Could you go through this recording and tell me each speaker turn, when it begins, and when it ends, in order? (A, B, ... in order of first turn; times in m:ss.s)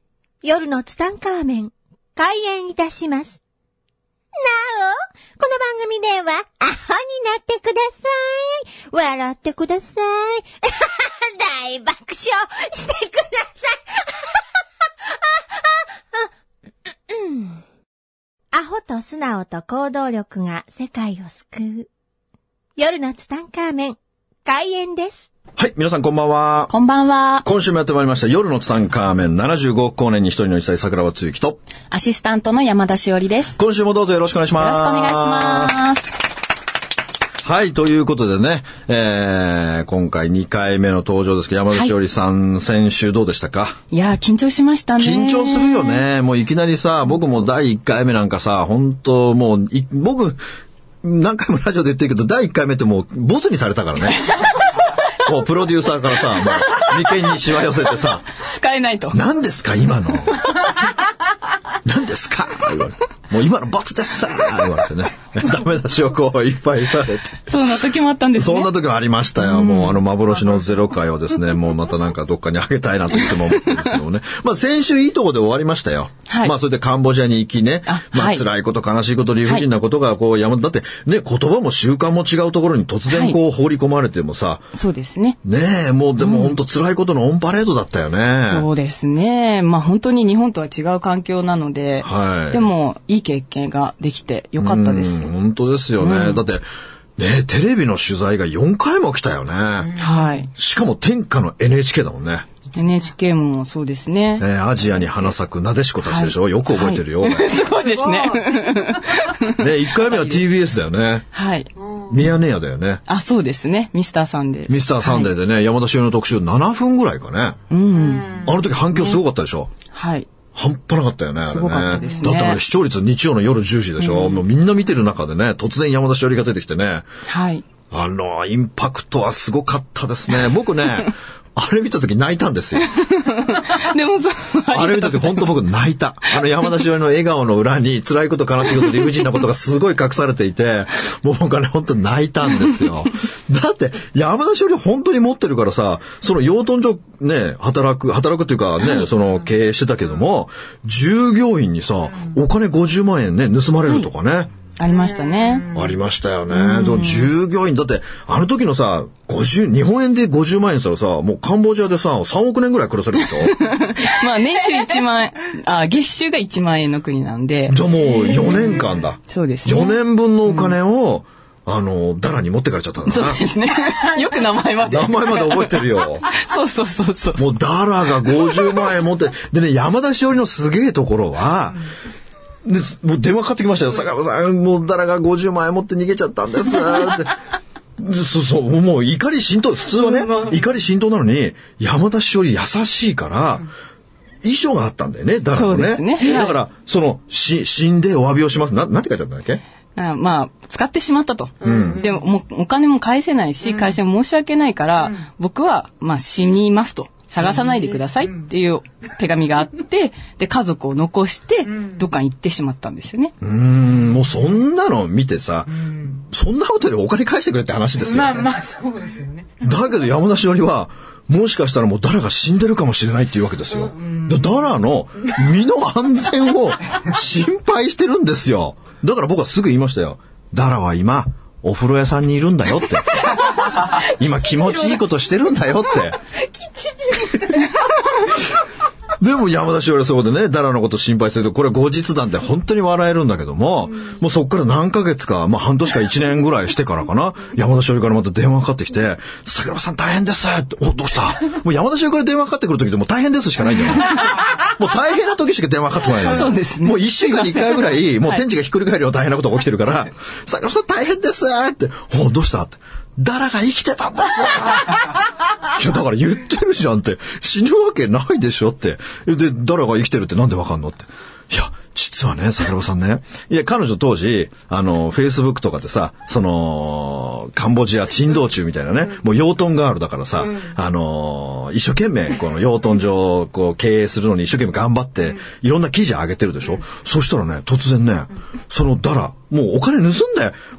0:00.4-0:03.4 A
0:04.4-0:14.4 A
0:15.4-0:15.6 A
0:17.1-0:17.6 A
0:18.5-0:21.9 A
0:22.8-0:25.3 A
0:25.6-0:26.7 B
0:26.7-0:27.4 C
0:27.4-0:31.6 B
0:31.9-0:33.6 C
0:33.6-0:35.8 B
0:34.6-0:36.1 C
0:37.4-0:43.8 B
0:43.9-0:46.0 C
0:45.0-0:50.4 B
0:51.0-0:54.5 B
0:55.2-0:58.3 B
0:56.6-0:57.0 C
0:58.4-0:59.2 C
0:59.1-1:00.5 B
1:01.8-1:07.8 B
1:07.5-1:08.7 C
1:08.4-1:24.7 B
1:09.4-1:10.0 C
1:16.3-1:16.5 C
1:17.9-1:18.4 C
1:23.1-1:23.4 C
1:24.7-1:25.4 C
1:25.4-1:28.7 B
1:26.2-1:26.6 C
1:28.4-1:35.3 C
1:32.0-1:32.7 B
1:34.6-1:36.7 B
1:36.0-1:36.4 C
1:37.2-1:39.9 B
1:39.8-1:40.4 D
1:40.0-1:40.5 C
1:40.5-1:42.5 B
1:42.7-1:44.5 C
1:44.4-1:47.6 B
1:46.0-1:50.4 C
1:47.7-1:48.8 D
1:49.6-1:51.3 B
1:51.3-1:51.7 C
1:51.8-1:52.2 D
1:52.1-1:53.0 B
1:53.1-1:55.3 C
1:54.7-1:57.6 B
1:57.7-1:58.4 C
1:58.0-1:58.6 D
1:58.4-1:59.7 B
1:58.9-1:59.2 C
1:59.9-2:00.3 C
2:00.5-2:07.1 B
2:01.4-2:02.6 C
2:04.0-2:04.4 C
2:07.3-2:07.6 C
2:07.9-2:12.9 B
2:12.9-2:15.6 C
2:14.7-2:34.5 B
2:28.8-2:29.1 C
2:34.8-2:35.7 C
2:34.9-2:35.9 D
2:35.7-2:43.6 B
2:36.5-2:37.3 C
2:43.4-2:50.8 C
2:47.7-2:53.5 B
2:48.2-2:48.9 D
2:53.1-2:57.6 C
2:54.8-2:56.3 B
2:57.4-3:01.8 B
2:58.5-2:58.8 C
3:02.6-3:07.4 B
3:08.0-3:13.7 B
3:10.0-3:10.7 D
3:14.4-3:19.6 B
3:15.5-3:16.6 C
3:20.0-3:33.3 C
3:21.6-3:22.0 B
3:21.6-3:22.2 D
3:25.0-3:25.3 D
3:27.4-3:28.5 D
3:31.7-3:32.0 D
3:33.4-3:38.5 B
3:35.7-3:36.1 D
3:38.0-3:39.6 D
3:39.6-3:53.4 B
3:43.8-3:44.7 D
3:53.2-3:55.1 D
3:54.0-3:56.2 B
3:56.4-3:57.8 D
3:59.2-4:50.6 B
4:16.2-4:18.4 C